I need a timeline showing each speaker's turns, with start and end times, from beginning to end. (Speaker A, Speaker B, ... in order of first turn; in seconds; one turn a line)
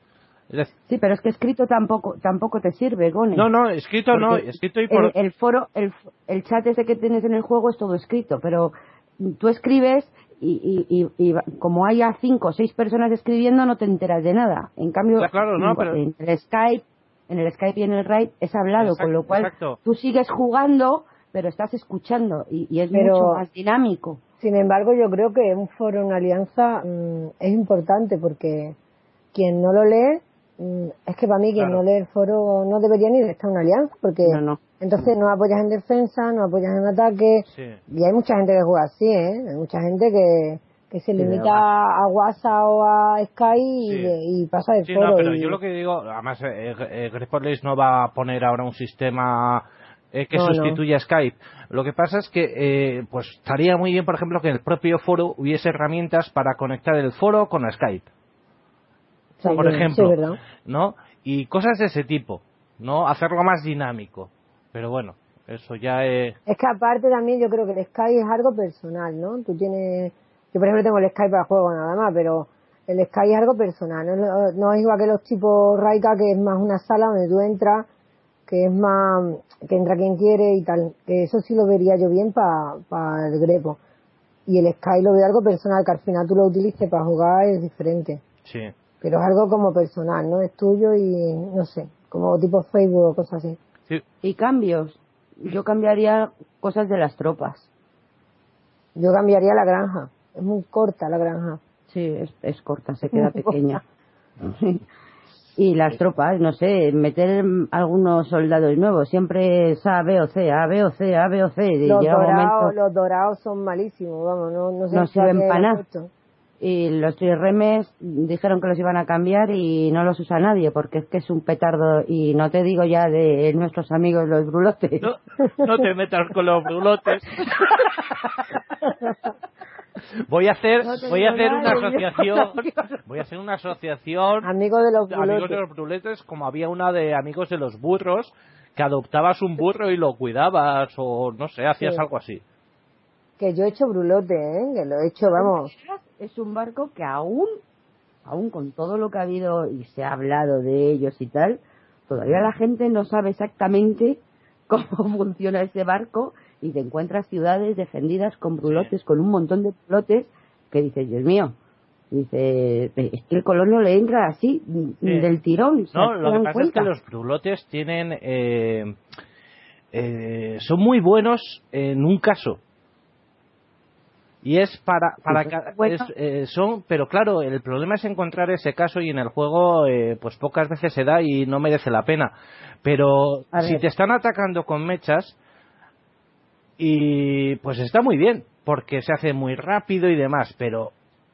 Speaker A: 0.9-3.5
Speaker B: 3.3-5.1
Speaker A: 4.1-24.2
Speaker B: 15.2-16.0
Speaker B: 18.8-19.8
Speaker C: 22.9-23.4
Speaker C: 24.4-28.8
Speaker C: 29.3-45.6
Speaker B: 31.6-31.8
Speaker A: 34.2-34.6
Speaker B: 37.5-37.8
Speaker A: 41.2-41.5
Speaker B: 43.9-44.2
Speaker B: 44.9-58.1
Speaker C: 50.3-50.8
Speaker C: 59.4-60.4
Speaker B: 59.4-66.3
Speaker C: 66.5-77.8
Speaker C: 78.5-83.8
Speaker C: 84.5-88.2
Speaker B: 88.5-88.7
Speaker C: 89.0-93.6
Speaker A: 94.2-97.7
Speaker C: 99.0-101.6
Speaker A: 101.9-103.8
Speaker C: 103.2-103.5
Speaker A: 104.4-104.8
Speaker A: 105.6-112.7
Speaker C: 111.8-116.1
Speaker A: 114.9-115.8
Speaker A: 116.6-125.1
Speaker B: 125.0-127.4
Speaker A: 127.4-128.0
Speaker B: 130.3-134.5
Speaker A: 130.8-133.0
Speaker C: 134.4-135.6
Speaker B: 135.1-142.4
Speaker C: 143.4-145.7
Speaker A: 145.3-147.6
Speaker A: 148.2-161.6
Speaker A: 162.1-166.9
Speaker B: 165.9-168.9
Speaker B: 169.9-172.6
Speaker B: 174.4-182.3
Speaker A: 175.3-176.1
Speaker B: 182.8-185.3
Speaker A: 183.5-183.8
Speaker B: 186.8-190.9